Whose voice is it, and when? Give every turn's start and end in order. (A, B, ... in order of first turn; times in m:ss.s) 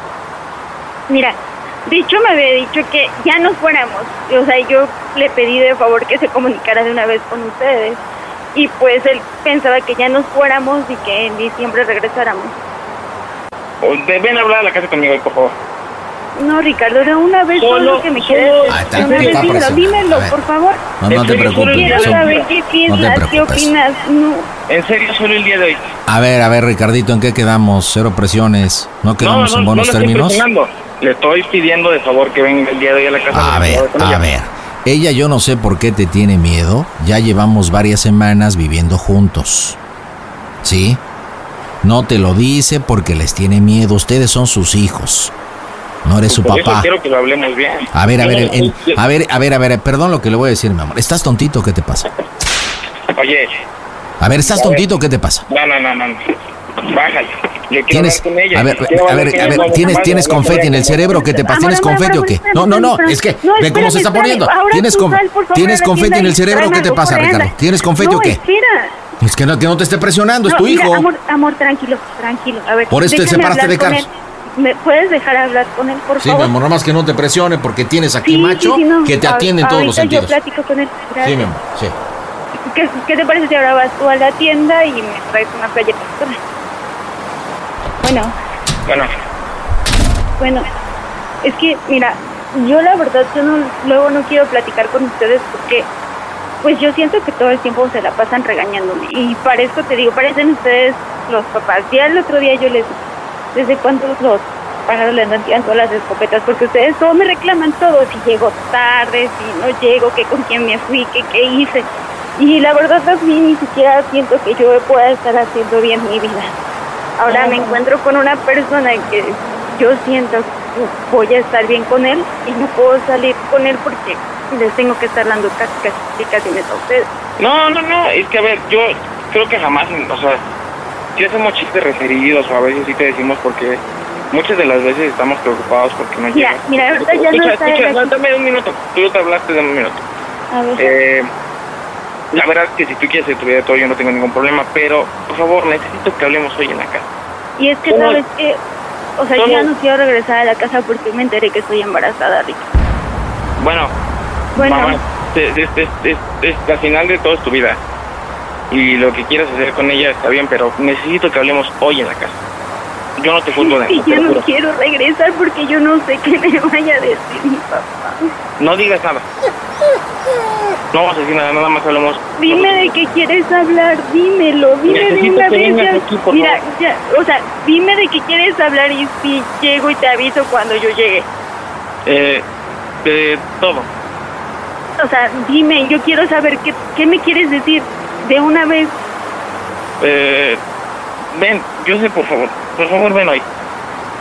0:01.1-0:08.0 A
0:08.5-0:12.5 A
0:13.8-0:15.5 B
0:16.4-0:20.8 A
0:17.6-0:19.5 B
0:18.7-0:20.4 C
0:21.0-0:22.4 C
0:21.1-0:22.5 B
0:21.6-0:24.5 A
0:22.9-0:23.7 C
0:24.7-0:25.9 B
0:26.1-0:30.4 C
0:29.2-0:34.2 B
0:33.3-0:39.8 C
0:40.6-0:41.0 C
0:41.8-0:45.3 C
0:46.0-0:46.9 C
0:46.3-0:49.0 B
0:47.9-0:52.1 C
0:53.1-0:53.5 B
0:54.2-0:55.4 C
0:54.5-0:54.8 B
0:55.5-0:56.2 B
0:56.8-1:01.1 B
0:57.9-1:08.4 C
0:59.3-1:08.9 A
1:09.2-1:11.1 C
1:10.5-1:16.5 A
1:12.9-1:14.0 C
1:16.2-1:20.3 C
1:18.2-1:21.4 A
1:21.2-1:21.9 C
1:22.7-1:26.4 A
1:28.0-1:28.3 A
1:30.4-1:30.6 A
1:31.4-1:35.9 A
1:36.6-1:43.0 A
1:43.5-1:56.5 A
1:57.2-2:07.1 A
1:57.3-1:57.8 B
2:07.4-2:10.4 B
2:11.2-2:20.0 B
2:16.3-2:18.1 A
2:20.5-2:20.9 A
2:20.8-2:21.3 B
2:22.3-2:27.0 B
2:27.6-2:28.6 A
2:27.9-2:28.2 B
2:29.2-2:32.6 A
2:29.4-2:29.7 B
2:33.6-2:33.9 B
2:34.6-2:35.0 A
2:34.6-2:37.8 B
2:38.7-2:42.4 B
2:43.2-2:44.4 B
2:43.6-2:48.3 A
2:48.6-2:49.2 B
2:50.9-2:52.9 B
2:52.4-3:01.3 A
2:54.9-2:56.6 B
3:02.0-3:02.4 B
3:03.0-3:03.9 B
3:05.0-3:08.9 A
3:10.0-3:10.6 B
3:11.3-3:13.4 B